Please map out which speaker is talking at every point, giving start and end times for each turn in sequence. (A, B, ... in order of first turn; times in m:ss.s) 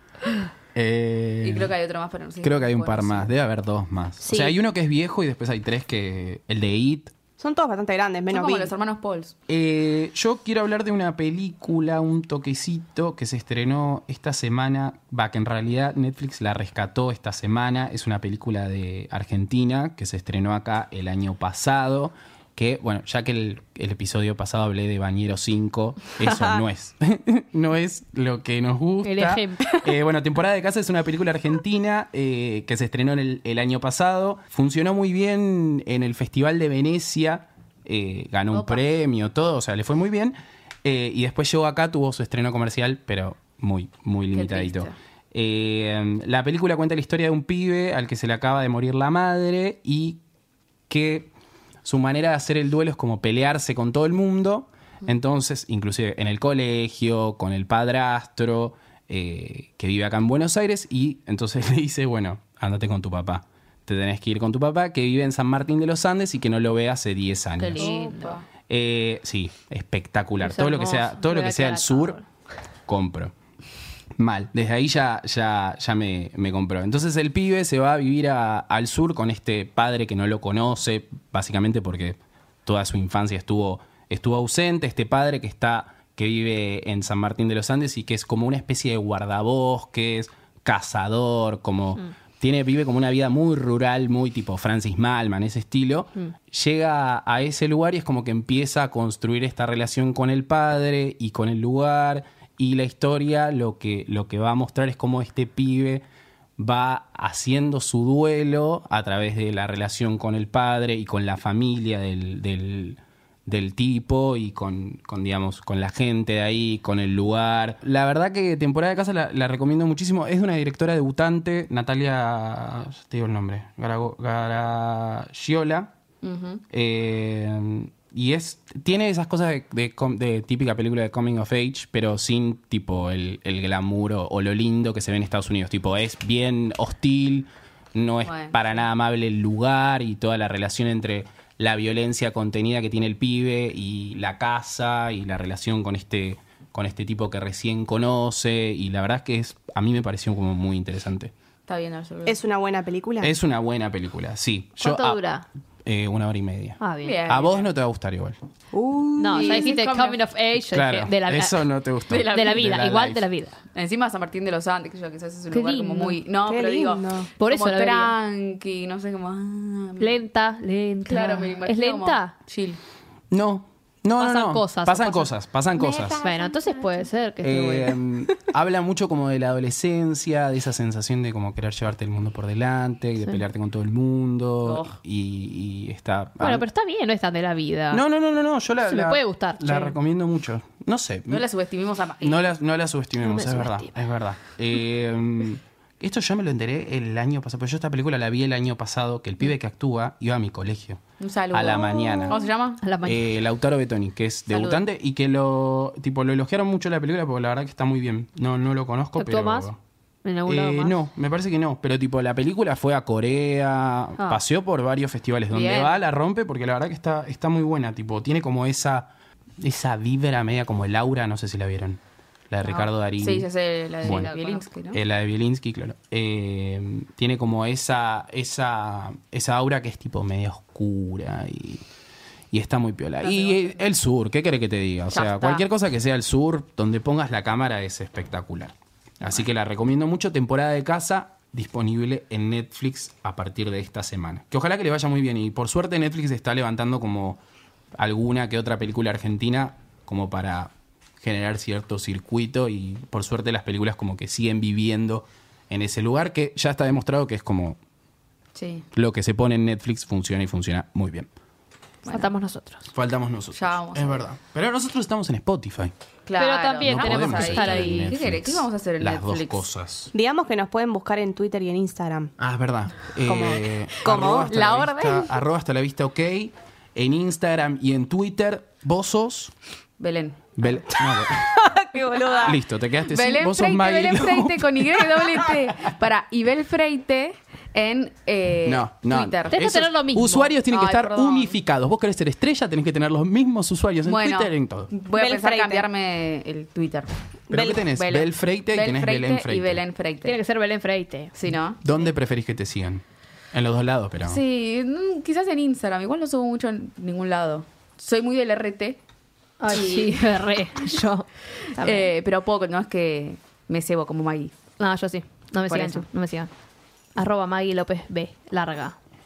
0:00.8-0:01.7 A
0:01.4-0:03.3 B
0:02.4-0:07.1 A
0:04.2-0:04.6 C
0:07.4-0:08.7 C
0:08.3-0:09.4 B
0:09.5-0:50.2 A
0:29.0-0:29.9 D
0:44.3-0:45.0 B
0:50.9-0:51.3 A
0:51.8-1:07.9 A
1:07.6-1:08.4 D
1:07.8-1:08.5 B
1:08.7-1:12.2 A
1:10.4-1:12.2 D
1:12.9-1:13.3 A
1:14.2-1:46.0 A
1:46.6-2:05.9 A
2:06.2-2:06.6 B
2:06.7-2:31.3 A
2:18.2-2:18.8 B
2:31.7-2:32.4 B
2:32.3-2:33.3 C
2:33.2-2:35.2 A
2:34.8-2:35.5 D
2:35.8-2:38.4 A
2:36.8-2:37.2 D
2:37.0-2:37.7 B
2:38.7-2:39.7 C
2:39.2-2:41.7 D
2:39.3-2:40.2 B
2:40.7-2:43.2 A
2:42.1-2:42.8 B
2:42.2-2:43.6 D
2:43.7-2:50.2 B
2:45.5-2:46.2 D
2:46.5-2:47.3 C
2:47.4-2:48.1 D
2:50.0-2:52.3 D
2:51.1-2:52.8 B
2:53.3-2:56.2 A
2:54.2-2:55.3 D
2:55.8-2:57.0 B
2:56.2-2:58.0 D
2:57.4-3:06.6 A
3:04.6-3:05.0 B
3:06.4-3:08.0 D
3:07.9-3:11.5 A
3:08.9-3:10.0 D
3:11.3-3:12.5 B
3:12.2-3:22.4 A
3:13.2-3:13.9 D
3:21.2-3:22.8 B
3:22.8-3:23.2 D
3:23.0-3:29.8 A
3:24.5-3:24.8 B
3:29.2-3:29.7 D
3:30.2-3:31.0 D
3:30.5-3:43.5 A
3:35.5-3:36.0 B
3:42.6-3:45.0 B
3:44.0-3:44.3 A
3:44.0-3:44.6 D
3:44.9-3:51.8 A
3:52.5-4:07.4 A
3:53.2-3:53.8 B
3:55.1-3:55.6 B
4:08.0-4:17.8 A
4:18.6-4:18.9 B
4:18.9-4:21.3 A
4:22.0-4:22.3 B
4:22.1-4:22.9 D
4:22.9-4:25.9 A
4:23.5-4:24.2 B
4:26.3-4:29.7 B
4:26.4-4:28.1 D
4:26.8-4:30.1 A
4:30.1-4:32.3 C
4:32.4-4:39.5 A
4:33.2-4:34.5 C
4:34.5-4:35.4 B
4:40.0-4:40.8 B
4:40.6-4:41.6 A
4:41.3-4:42.6 C
4:42.3-4:49.8 B
4:42.4-4:45.9 A
4:48.6-4:54.9 A
4:49.5-4:50.5 D
4:50.6-4:51.6 B
4:54.0-4:57.2 B
4:55.1-4:55.9 C
4:57.5-4:59.8 A
4:57.5-4:57.8 C
4:57.7-5:00.4 B
5:00.2-5:01.3 D
5:01.4-5:01.8 B
5:01.8-5:04.4 A
5:04.2-5:09.0 B
5:09.6-5:12.1 D
5:09.7-5:10.4 B
5:11.7-5:14.6 B
5:14.8-5:16.5 D
5:15.7-5:16.1 B
5:17.2-5:19.0 D